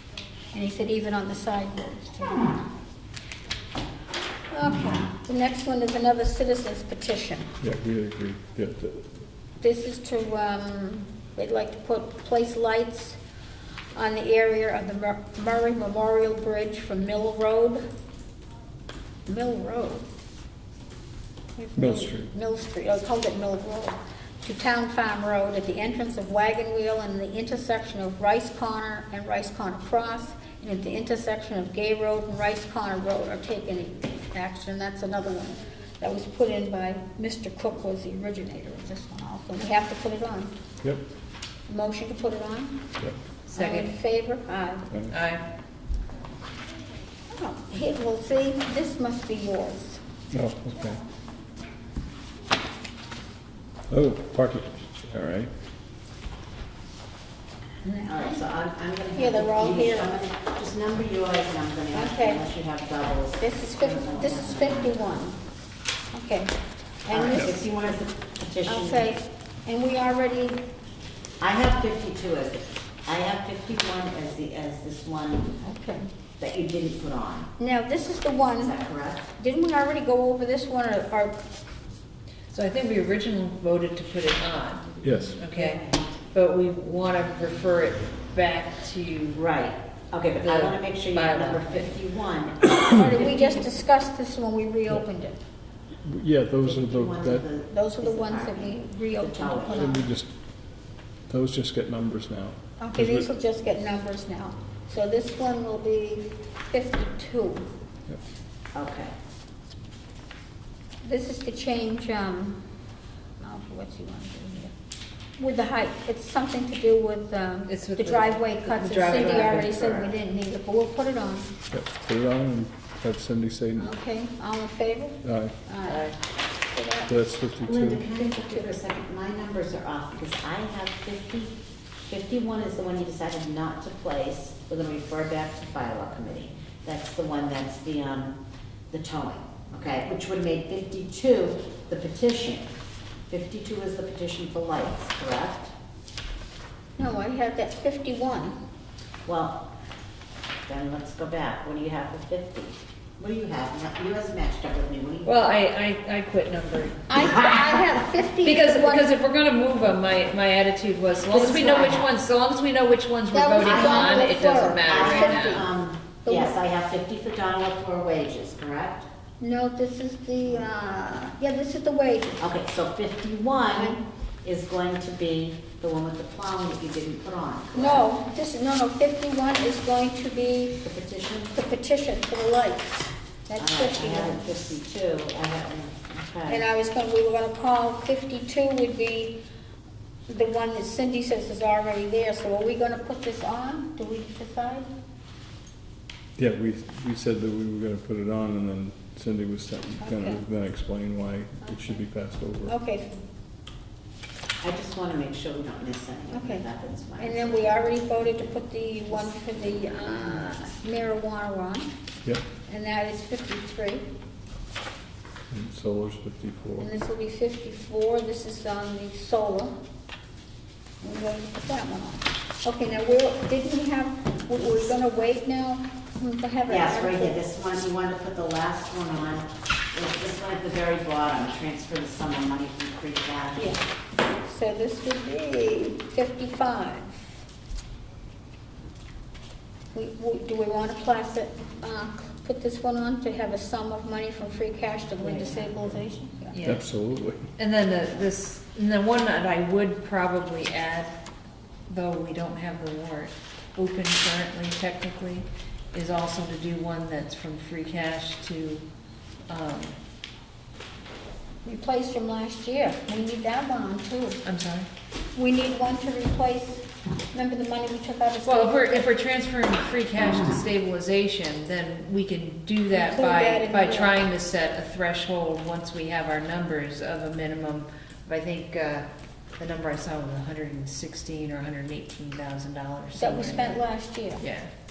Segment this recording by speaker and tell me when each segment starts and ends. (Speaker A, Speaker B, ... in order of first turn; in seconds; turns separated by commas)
Speaker A: 0.5-2.6, Speaker A: 4.5-7.5, Speaker B: 7.6-9.1, Speaker A: 9.6-13.2, Speaker A: 13.9-17.8, Speaker A: 19.3-20.0, Speaker A: 21.6-40.5, Speaker B: 21.8-22.3, Speaker A: 41.7-42.8, Speaker C: 43.5-43.9, Speaker A: 43.5-44.9, Speaker B: 44.9-45.1, Speaker C: 45.1-45.4, Speaker A: 47.3-50.0, Speaker B: 50.3-51.0, Speaker B: 53.9-55.5, Speaker A: 57.8-58.4, Speaker D: 58.0-65.2, Speaker A: 59.1-60.1, Speaker A: 61.9-62.4, Speaker A: 63.4-65.4, Speaker A: 66.1-66.5, Speaker A: 67.0-67.6, Speaker D: 67.1-69.1, Speaker A: 68.7-70.6, Speaker D: 71.4-75.5, Speaker A: 75.6-76.1, Speaker D: 76.4-77.5, Speaker A: 77.6-78.7, Speaker D: 78.6-79.3, Speaker A: 79.4-81.3, Speaker C: 82.5-85.8, Speaker B: 85.0-85.4, Speaker D: 85.5-86.2, Speaker C: 86.3-89.4, Speaker D: 89.3-93.5, Speaker C: 90.4-91.9, Speaker A: 92.9-95.4, Speaker B: 96.0-97.4, Speaker D: 96.6-100.0, Speaker A: 97.7-100.1, Speaker B: 99.7-100.3, Speaker B: 101.3-103.3, Speaker A: 102.8-107.7, Speaker D: 108.7-109.1, Speaker A: 111.0-112.6, Speaker A: 113.4-114.7, Speaker A: 115.4-121.5, Speaker C: 117.7-119.8, Speaker D: 119.1-120.1, Speaker B: 121.7-123.9, Speaker A: 123.8-126.1, Speaker B: 125.2-125.5, Speaker C: 125.8-126.1, Speaker A: 126.7-127.1, Speaker B: 127.1-128.0, Speaker D: 127.6-138.4, Speaker A: 128.0-128.7, Speaker D: 138.9-142.7, Speaker D: 143.3-145.7, Speaker A: 147.0-148.6, Speaker D: 149.2-149.6, Speaker D: 150.7-155.3, Speaker C: 155.2-157.1, Speaker A: 157.1-159.1, Speaker D: 157.2-157.5, Speaker C: 158.4-165.6, Speaker D: 161.3-162.1, Speaker A: 163.3-165.7, Speaker D: 163.6-164.2, Speaker D: 164.8-169.1, Speaker A: 166.2-166.6, Speaker A: 169.4-172.4, Speaker D: 172.4-178.1, Speaker A: 173.7-174.0, Speaker A: 177.7-180.8, Speaker D: 180.8-181.5, Speaker A: 181.5-184.5, Speaker D: 183.6-186.6, Speaker A: 186.5-189.4, Speaker A: 190.3-194.9, Speaker B: 196.4-202.7, Speaker A: 200.0-200.4, Speaker A: 202.7-203.2, Speaker D: 204.6-207.6, Speaker A: 206.3-206.6, Speaker A: 207.2-211.9, Speaker A: 212.7-214.0, Speaker B: 215.5-216.9, Speaker A: 216.8-219.7, Speaker A: 221.0-227.4, Speaker D: 226.7-233.8, Speaker A: 234.4-237.2, Speaker A: 239.9-246.6, Speaker D: 245.2-245.8, Speaker C: 246.5-246.8, Speaker B: 246.6-247.4, Speaker C: 247.6-251.2, Speaker C: 251.9-258.8, Speaker C: 259.5-259.9, Speaker A: 261.6-264.4, Speaker C: 264.4-264.9, Speaker A: 265.3-269.1, Speaker C: 268.4-283.8, Speaker A: 272.9-274.2, Speaker A: 283.1-284.4, Speaker C: 284.4-284.7